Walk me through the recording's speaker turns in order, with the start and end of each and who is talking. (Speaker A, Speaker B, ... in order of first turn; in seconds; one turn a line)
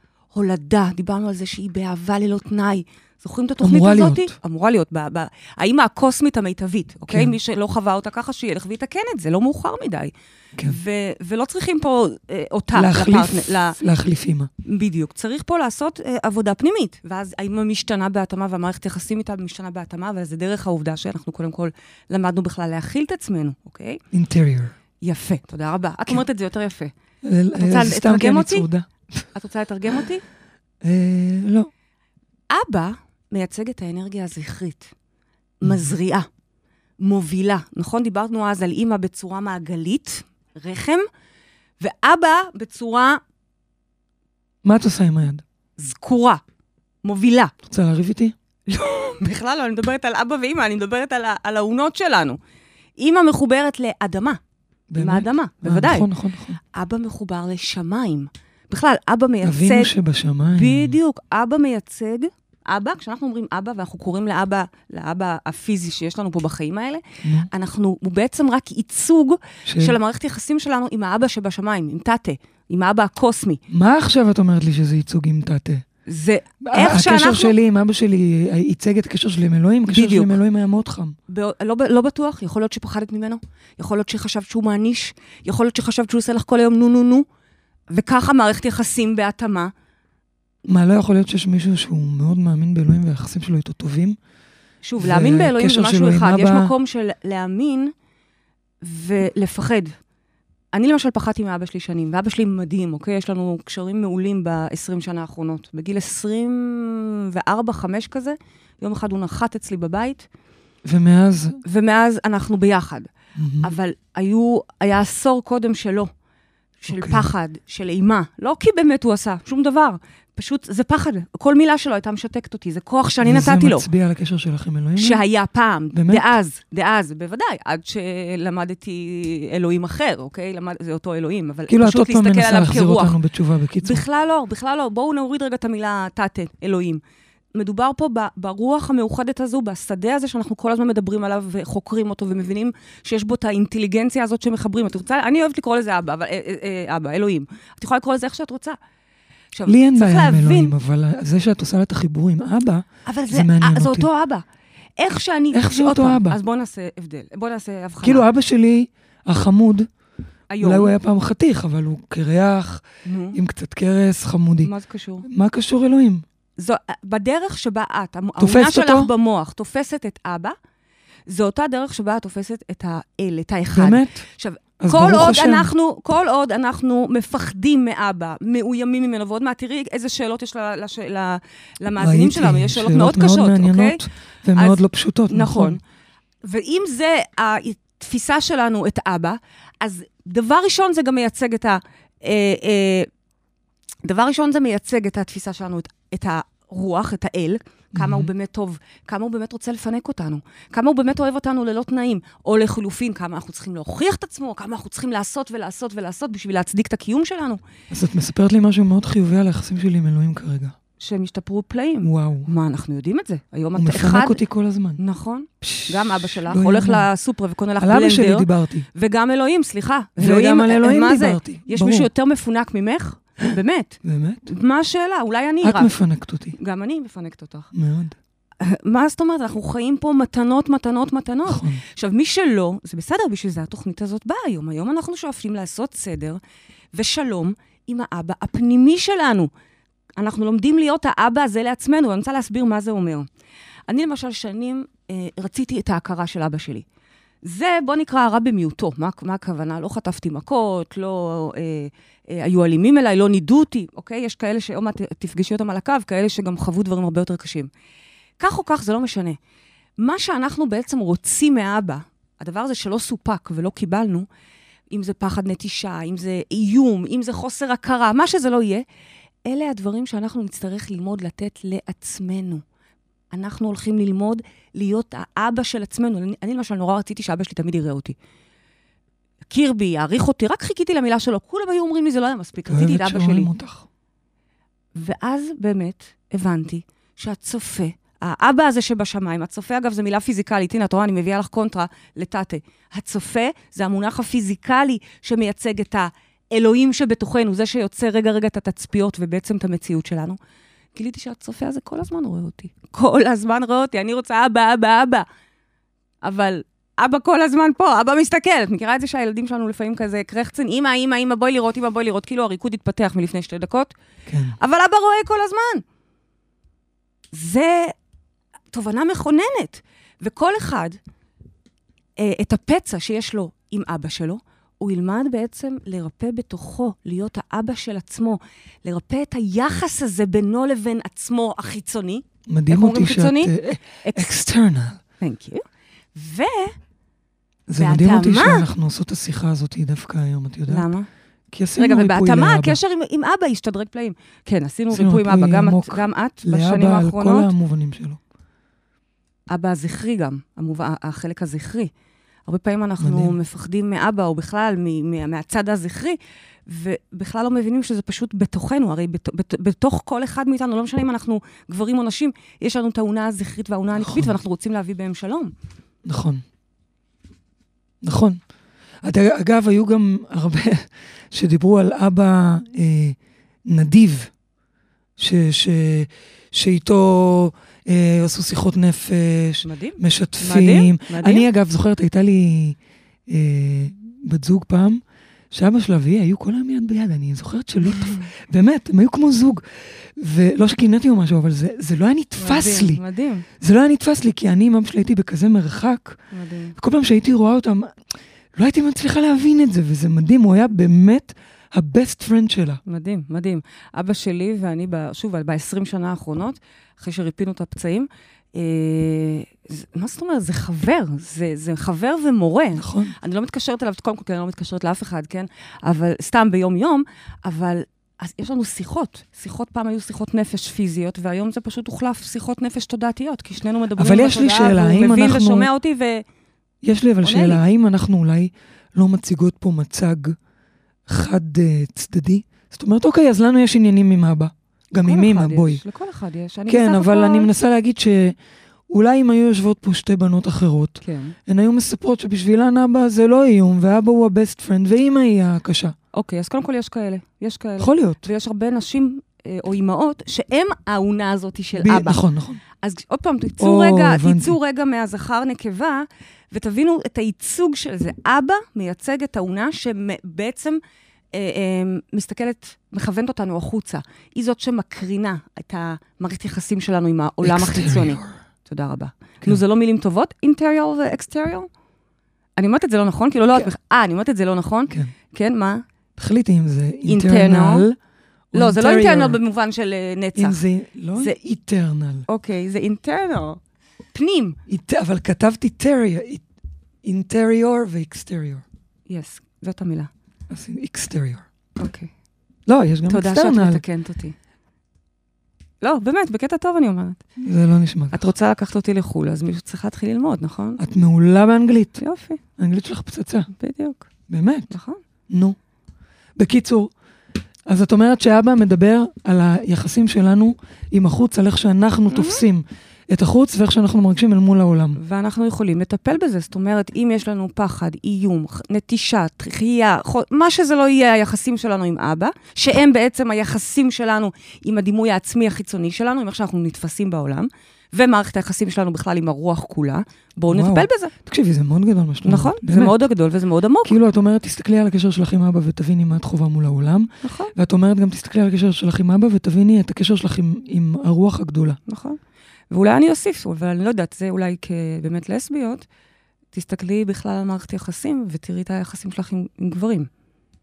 Speaker A: 0.3-10.1
Speaker B: 3.6-4.3
Speaker B: 7.1-7.3
Speaker A: 10.6-13.8
Speaker B: 12.7-14.5
Speaker A: 14.6-24.0
Speaker B: 24.1-24.7
Speaker A: 25.0-26.9
Speaker B: 27.2-29.3
Speaker A: 27.6-28.7
Speaker A: 29.3-30.2
Speaker B: 30.8-31.7
Speaker A: 32.5-34.9
Speaker A: 35.6-36.3
Speaker B: 35.6-35.9
Speaker A: 37.0-41.0
Speaker A: 41.8-43.2
Speaker B: 44.6-45.4
Speaker A: 45.8-46.4
Speaker A: 47.0-47.5
Speaker B: 47.6-48.3
Speaker A: 48.7-52.4
Speaker A: 53.0-54.4
Speaker B: 54.9-56.6
Speaker A: 55.0-56.1
Speaker A: 56.7-59.9
Speaker B: 59.4-61.0
Speaker A: 60.5-73.6
Speaker B: 67.2-67.5
Speaker B: 69.7-70.0
Speaker B: 73.7-75.8
Speaker A: 76.1-77.5
Speaker B: 76.6-81.2
Speaker A: 79.9-80.4
Speaker A: 81.3-87.2
Speaker A: 87.9-89.7
Speaker B: 90.7-94.2
Speaker A: 94.8-97.9
Speaker B: 95.0-96.7
Speaker A: 98.8-99.9
Speaker A: 100.7-110.3
Speaker B: 110.8-111.6
Speaker A: 111.6-113.1
Speaker B: 113.3-113.7
Speaker A: 113.6-116.1
Speaker A: 116.8-123.8
Speaker B: 116.9-117.3
Speaker B: 123.2-125.2
Speaker A: 125.0-133.2
Speaker B: 125.9-126.2
Speaker B: 131.7-134.0
Speaker A: 133.8-137.0
Speaker A: 137.5-148.8
Speaker A: 149.5-150.7
Speaker B: 149.7-154.1
Speaker A: 153.1-154.4
Speaker A: 155.0-158.2
Speaker B: 155.5-156.4
Speaker B: 158.0-159.9
Speaker A: 160.5-160.9
Speaker B: 160.6-164.7
Speaker A: 163.0-163.4
Speaker A: 164.6-165.3
Speaker B: 165.2-166.2
Speaker A: 166.6-170.5
Speaker B: 168.4-169.1
Speaker A: 171.3-184.0
Speaker B: 173.7-174.2
Speaker B: 174.8-175.7
Speaker B: 182.0-185.8
Speaker A: 184.6-185.8
Speaker A: 186.4-193.1
Speaker A: 194.0-207.6
Speaker B: 197.9-198.3
Speaker B: 207.9-210.7
Speaker A: 211.0-214.4
Speaker B: 212.0-212.5
Speaker B: 213.8-215.0
Speaker A: 215.0-225.9
Speaker B: 215.6-217.1
Speaker B: 217.8-218.9
Speaker B: 220.2-222.1
Speaker B: 224.0-224.5
Speaker B: 225.6-226.6
Speaker A: 226.6-227.7
Speaker B: 227.7-228.2
Speaker A: 228.6-236.4
Speaker B: 231.5-231.8
Speaker A: 236.9-239.5
Speaker A: 240.2-243.3
Speaker A: 243.9-246.8
Speaker A: 247.4-257.7
Speaker A: 258.4-259.4
Speaker A: 260.0-264.3
Speaker A: 264.9-268.8
Speaker A: 269.4-272.6
Speaker A: 273.3-278.1
Speaker A: 279.5-283.5
Speaker B: 282.7-283.9
Speaker A: 284.9-300.4
Speaker A: 300.9-305.2
Speaker A: 306.2-313.9
Speaker B: 314.3-314.6
Speaker A: 314.6-315.8
Speaker A: 317.3-317.9
Speaker A: 318.7-321.0
Speaker A: 322.2-333.5
Speaker B: 332.5-335.0
Speaker A: 334.0-334.3
Speaker A: 335.2-335.6
Speaker A: 336.1-336.7
Speaker B: 337.7-340.9
Speaker A: 337.8-338.7
Speaker A: 340.7-341.1
Speaker B: 341.5-342.8
Speaker A: 341.8-347.5
Speaker B: 344.9-348.2
Speaker A: 349.5-351.9
Speaker A: 352.4-365.5
Speaker B: 353.0-353.3
Speaker B: 364.0-364.3
Speaker B: 366.0-366.4
Speaker B: 368.0-368.4
Speaker B: 369.0-374.3
Speaker B: 375.2-382.8
Speaker A: 379.6-381.5
Speaker B: 383.3-393.0
Speaker A: 387.9-388.3
Speaker A: 392.4-393.4
Speaker B: 393.6-396.2
Speaker A: 396.3-396.7
Speaker B: 396.8-398.0
Speaker B: 398.6-402.8
Speaker A: 402.9-426.2
Speaker B: 412.8-413.1
Speaker B: 424.0-425.7
Speaker B: 426.8-430.4
Speaker A: 427.2-427.6
Speaker B: 431.1-435.8
Speaker A: 435.0-437.5
Speaker B: 436.7-438.4
Speaker B: 438.9-445.9
Speaker A: 441.0-441.3
Speaker A: 446.1-452.2
Speaker B: 447.8-448.3
Speaker B: 451.8-452.6
Speaker A: 452.8-460.8
Speaker B: 453.6-454.6
Speaker A: 461.3-471.7
Speaker B: 467.4-468.3
Speaker A: 472.6-475.8
Speaker B: 476.2-477.9
Speaker A: 477.1-477.9
Speaker B: 478.5-479.4
Speaker A: 478.5-480.6
Speaker B: 480.4-482.2
Speaker A: 482.3-483.6
Speaker A: 484.1-484.6
Speaker B: 484.7-486.4
Speaker B: 487.0-488.6
Speaker A: 489.1-490.1
Speaker B: 490.5-491.4
Speaker A: 491.8-492.1
Speaker B: 492.6-493.8
Speaker A: 493.1-494.3
Speaker A: 495.8-497.2
Speaker B: 497.4-498.3
Speaker A: 498.1-500.8
Speaker B: 500.8-502.0
Speaker A: 502.0-502.4
Speaker B: 502.6-503.5
Speaker A: 503.6-504.1
Speaker B: 504.3-504.7
Speaker A: 504.7-505.0
Speaker B: 505.3-505.6
Speaker B: 506.4-506.9
Speaker B: 507.7-515.0
Speaker A: 512.1-512.4
Speaker A: 515.0-531.1
Speaker B: 530.5-533.0
Speaker A: 532.2-533.9
Speaker B: 533.8-541.8
Speaker A: 537.2-537.5
Speaker A: 541.9-542.2
Speaker A: 542.7-545.8
Speaker A: 546.5-550.1